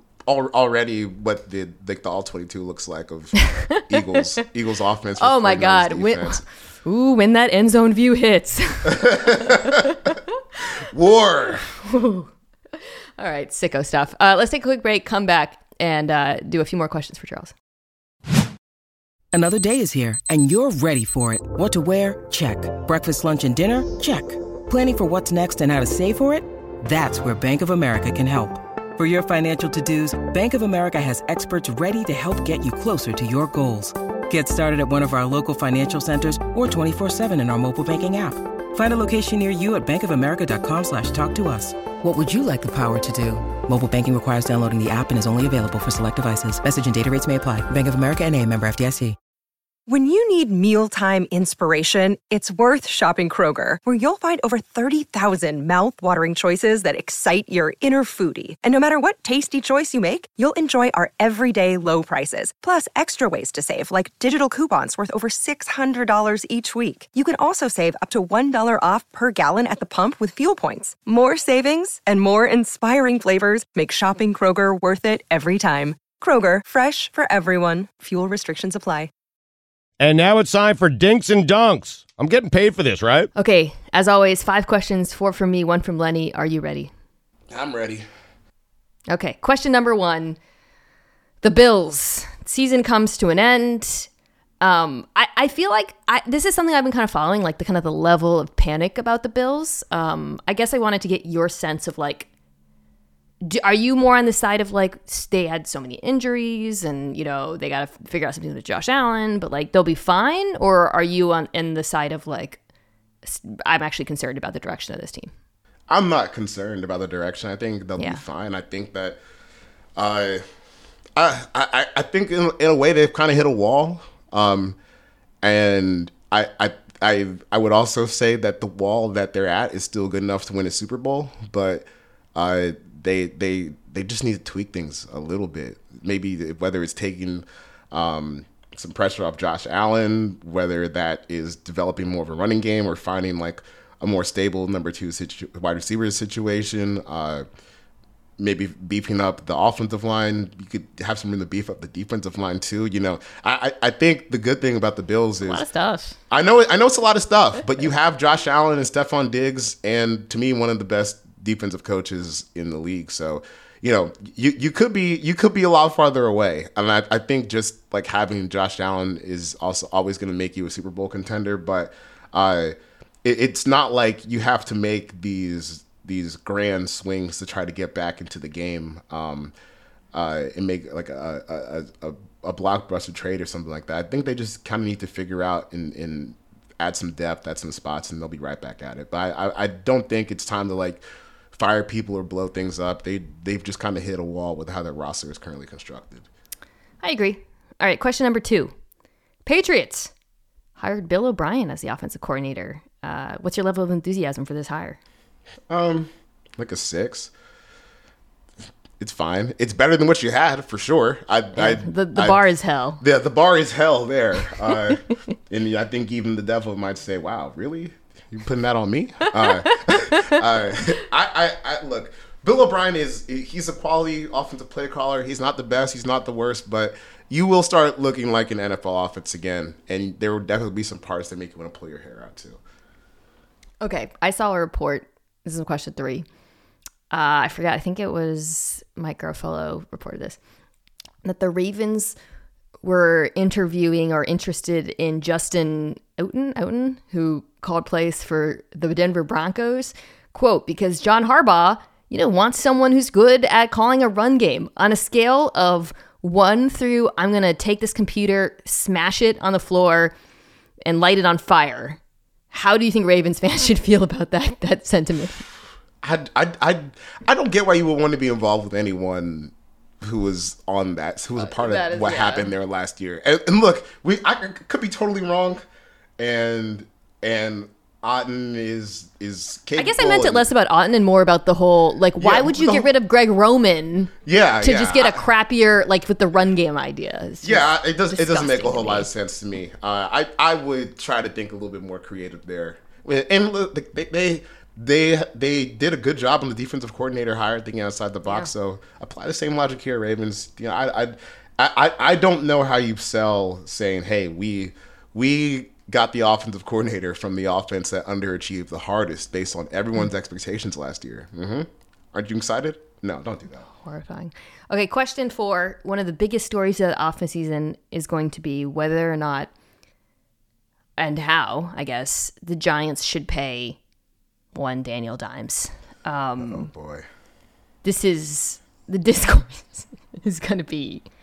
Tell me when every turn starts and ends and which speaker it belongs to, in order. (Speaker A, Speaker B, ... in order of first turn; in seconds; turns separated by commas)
Speaker A: 0.2-6.4, Speaker B: 3.5-3.8, Speaker B: 5.2-10.2, Speaker A: 8.9-9.9, Speaker A: 10.7-11.7, Speaker B: 11.7-12.3, Speaker B: 13.2-17.5, Speaker C: 19.3-49.2, Speaker D: 49.9-79.1, Speaker E: 80.0-83.3, Speaker B: 83.3-86.9, Speaker A: 87.5-88.0, Speaker B: 89.1-90.4, Speaker B: 91.4-94.1, Speaker B: 94.6-102.3, Speaker B: 103.4-112.6, Speaker B: 113.2-115.3, Speaker A: 115.9-119.2, Speaker A: 120.0-120.4, Speaker A: 121.2-124.8, Speaker A: 125.4-147.4, Speaker A: 148.4-155.6, Speaker B: 155.4-156.2, Speaker A: 156.3-179.5, Speaker A: 180.1-196.3, Speaker B: 197.0-198.7, Speaker B: 199.4-200.1, Speaker B: 200.8-205.0, Speaker A: 205.7-207.3, Speaker A: 209.0-212.4, Speaker B: 211.6-213.0, Speaker A: 213.0-232.6, Speaker B: 219.4-220.3, Speaker B: 233.8-236.2, Speaker B: 237.1-240.4, Speaker B: 241.2-242.2, Speaker B: 242.8-260.1, Speaker B: 260.9-262.0, Speaker B: 262.5-265.4, Speaker A: 266.0-275.6, Speaker B: 271.4-272.5, Speaker A: 276.2-280.5, Speaker B: 279.8-289.1, Speaker A: 282.2-282.9, Speaker A: 284.2-285.2, Speaker A: 287.4-313.7, Speaker B: 313.7-319.5, Speaker B: 321.0-323.8, Speaker B: 324.5-326.7, Speaker A: 326.4-327.1, Speaker B: 327.8-331.1